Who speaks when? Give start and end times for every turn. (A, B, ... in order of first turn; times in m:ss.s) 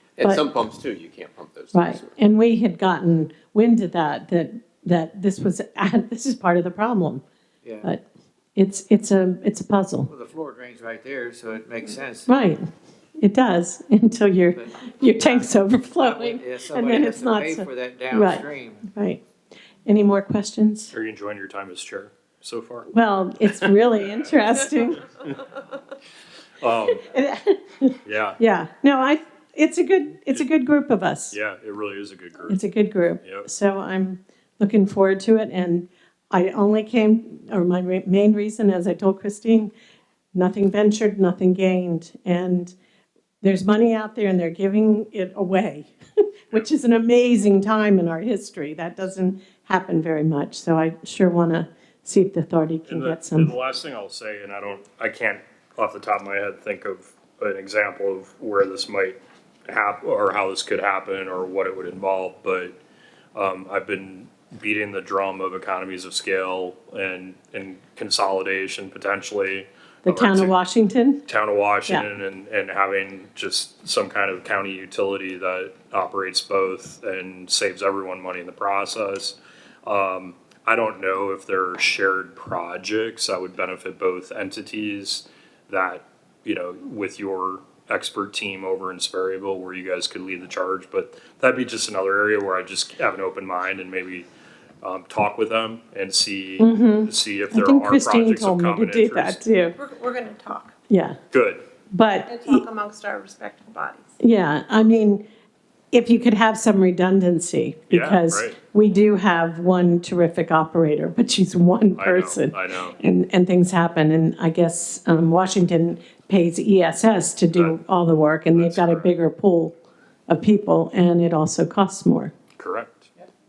0:00.2-0:02.1 A
0:01.7-0:07.2 B
0:07.6-0:07.9 C
0:08.6-0:10.1 B
0:10.1-0:12.3 C
0:12.3-0:12.6 B
0:13.2-0:19.2 B
0:14.5-0:18.9 C
0:19.8-0:20.9 B
0:20.9-0:22.9 D
0:22.9-0:25.1 B
0:26.6-0:27.0 D
0:26.9-0:31.4 B
0:28.0-0:28.4 D
0:31.3-0:32.6 D
0:32.5-0:39.7 B
0:33.2-0:33.5 D
0:40.3-0:42.7 B
0:43.4-0:45.9 B
0:46.5-0:53.5 B
0:52.8-1:02.8 D
1:03.3-1:10.6 D
1:10.0-1:11.2 B
1:11.3-1:34.3 D
1:34.8-1:39.4 D
1:36.6-1:39.8 B
1:39.7-1:40.7 E
1:40.9-1:41.2 B
1:41.3-1:41.6 D
1:41.9-1:42.6 B
1:42.2-1:44.1 E
1:44.2-1:45.2 B
1:45.9-1:59.7 B
1:47.9-1:48.6 D
1:52.0-1:53.0 D
1:58.5-1:59.1 D
2:00.3-2:02.3 B
2:02.6-2:03.1 D